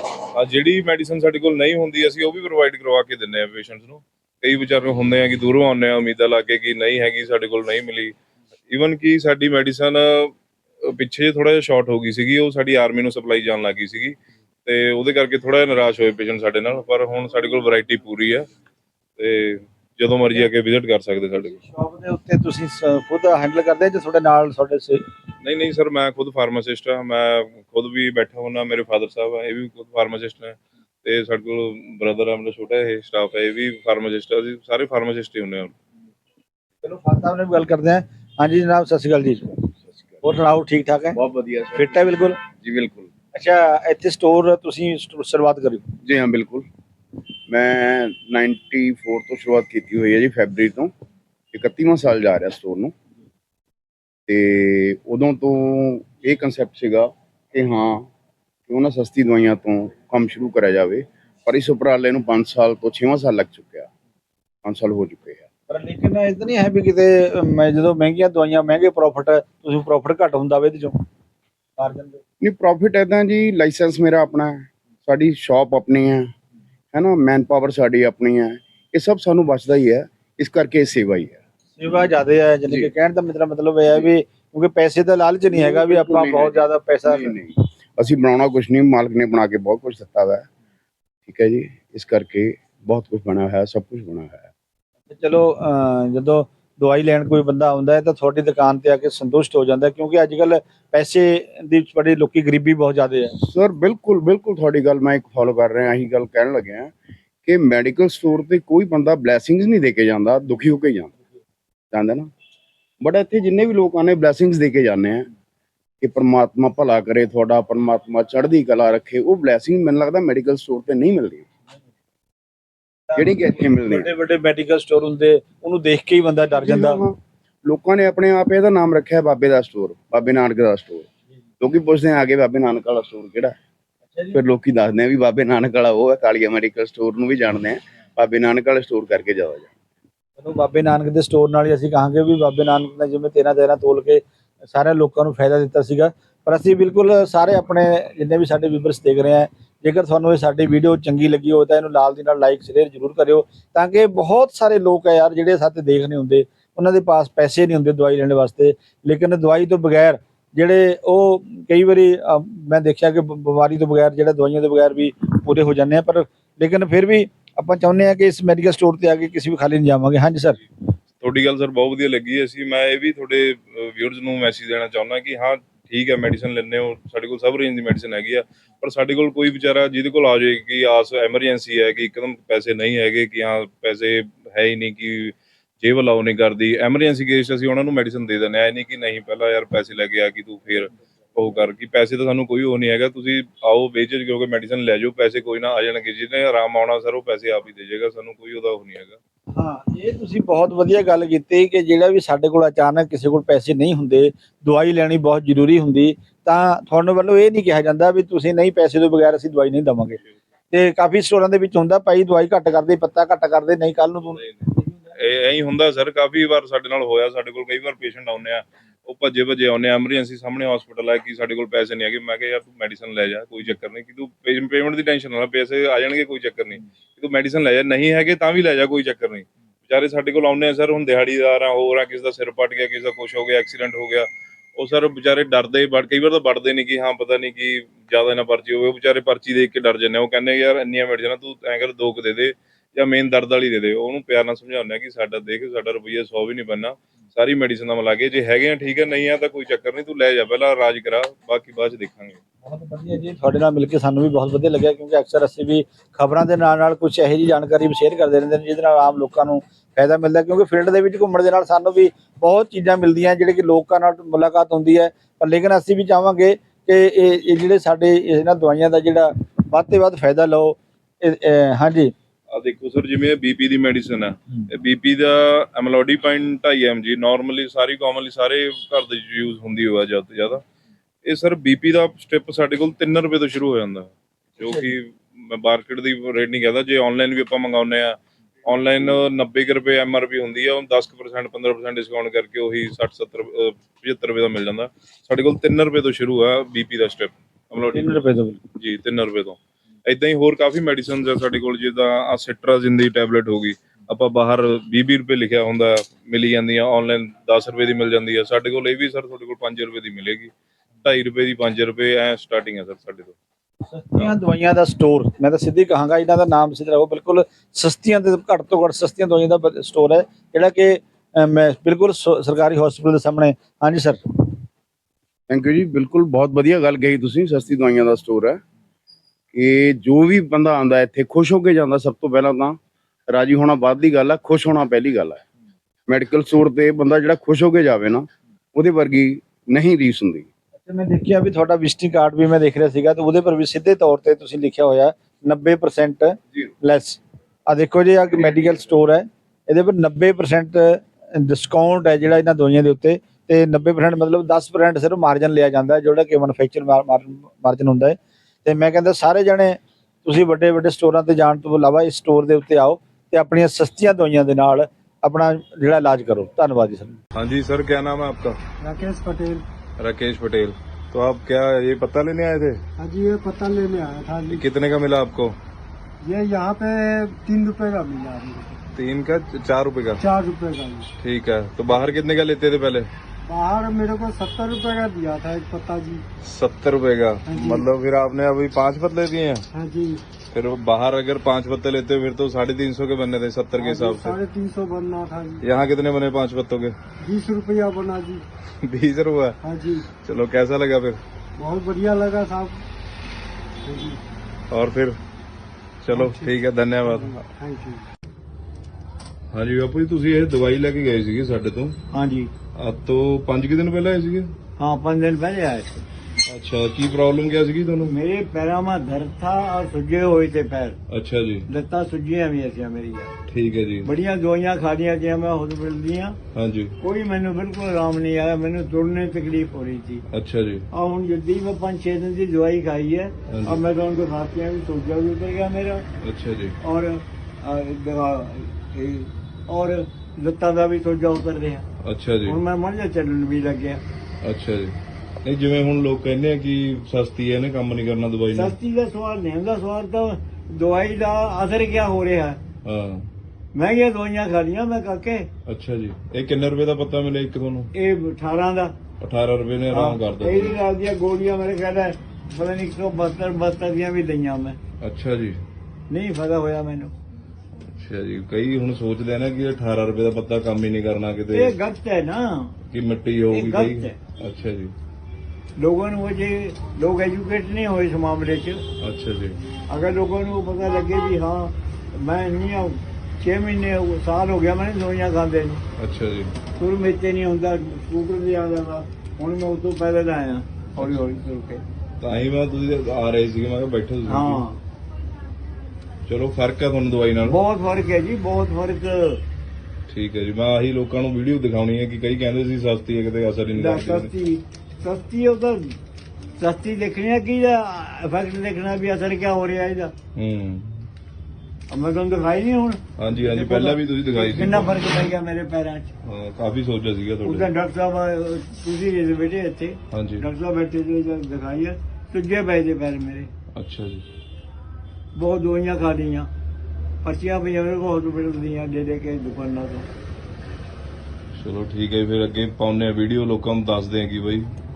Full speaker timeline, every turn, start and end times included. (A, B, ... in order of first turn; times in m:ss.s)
0:00.3-0:08.1 A
0:08.7-0:18.5 A
0:19.2-0:21.5 A
0:21.5-0:25.0 B
0:25.4-0:35.7 A
0:36.8-0:39.6 B
0:40.2-0:41.2 B
0:41.1-0:43.1 C
0:41.8-0:42.4 B
0:43.3-0:45.8 B
0:46.0-0:46.6 C
0:47.5-0:50.9 C
0:51.5-0:52.9 C
0:54.3-0:58.1 C
0:58.7-1:03.9 C
1:04.6-1:05.5 C
1:05.7-1:11.0 B
1:11.8-1:12.2 B
1:12.4-1:16.3 C
1:16.9-1:21.4 C
1:21.8-1:27.3 B
1:25.5-1:30.4 C
1:31.3-1:34.5 C
1:35.1-1:43.3 B
1:43.4-1:46.9 C
1:47.4-1:51.1 C
1:51.9-1:52.3 C
1:53.0-1:55.3 C
1:56.0-2:01.5 C
2:03.1-2:07.0 B
2:03.2-2:04.1 C
2:06.5-2:11.1 C
2:11.6-2:13.5 C
2:14.3-2:19.7 C
2:20.4-2:50.6 B
2:51.2-3:19.2 A
3:19.6-3:30.2 B
3:30.7-3:34.9 B
3:35.1-4:12.4 A
4:12.6-4:32.1 B
4:32.5-4:40.6 A
4:41.2-4:58.2 A
4:57.9-4:58.6 B
4:58.7-5:10.5 A
5:11.0-5:13.3 A
5:13.9-5:24.6 B
5:25.5-5:28.6 C
5:29.5-5:35.4 C
5:36.1-5:40.5 C
5:40.8-6:07.2 B
6:07.3-6:08.6 A
6:08.8-6:09.6 D
6:10.0-6:12.8 A
6:13.0-6:14.6 D
6:14.5-6:15.5 A
6:16.2-6:18.8 D
6:19.0-6:20.2 A
6:20.2-6:21.1 D
6:21.2-6:23.1 A
6:23.5-6:26.2 D
6:26.4-6:29.6 A
6:27.5-6:27.8 D
6:29.7-6:30.2 D
6:30.5-6:34.4 A
6:33.8-6:35.6 D
6:35.6-6:36.9 A
6:37.2-6:38.4 D
6:38.8-6:39.5 A
6:39.6-6:40.1 D
6:40.2-6:41.2 A
6:41.6-6:42.8 D
6:43.8-6:44.2 D
6:44.7-6:45.2 A
6:46.0-6:47.4 A
6:46.1-6:48.1 D
6:49.5-6:52.0 A
6:52.1-6:52.5 E
6:52.8-6:54.5 A
6:54.8-6:55.9 E
6:56.5-6:58.2 A
6:58.0-7:01.0 E
7:01.1-7:01.6 A
7:01.7-7:03.3 E
7:03.5-7:04.1 A
7:04.0-7:06.4 E
7:06.5-7:06.9 A
7:07.0-7:10.2 E
7:10.3-7:10.8 A
7:10.9-7:16.0 E
7:13.5-7:13.8 A
7:16.2-7:16.8 A
7:16.8-7:21.8 E
7:22.0-7:22.6 A
7:22.4-7:24.0 E
7:24.4-7:28.8 A
7:28.5-7:32.6 E
7:32.8-7:33.3 A
7:33.7-7:35.5 E
7:35.7-7:37.9 A
7:37.9-7:39.0 E
7:39.2-7:40.8 A
7:39.9-7:44.8 E
7:45.0-7:45.6 A
7:46.1-7:47.1 E
7:48.0-7:51.8 A
7:51.5-7:52.8 E
7:52.9-7:54.9 A
7:53.5-7:54.2 E
7:55.8-7:58.8 E
7:59.0-7:59.6 A
7:59.9-8:05.8 E
8:06.0-8:06.5 A
8:06.8-8:11.8 E
8:12.2-8:14.6 A
8:14.2-8:14.8 E
8:16.3-8:17.6 A
8:17.4-8:19.4 E
8:20.1-8:24.3 A
8:23.7-8:26.0 E
8:26.6-8:30.1 E
8:30.4-8:31.1 A
8:31.9-8:36.1 E
8:33.2-8:35.3 A
8:36.2-8:37.7 A
8:37.4-8:43.5 E
8:40.1-8:40.4 A
8:43.7-8:44.2 A
8:45.4-8:46.5 E
8:47.2-8:50.1 E
8:51.6-8:54.7 A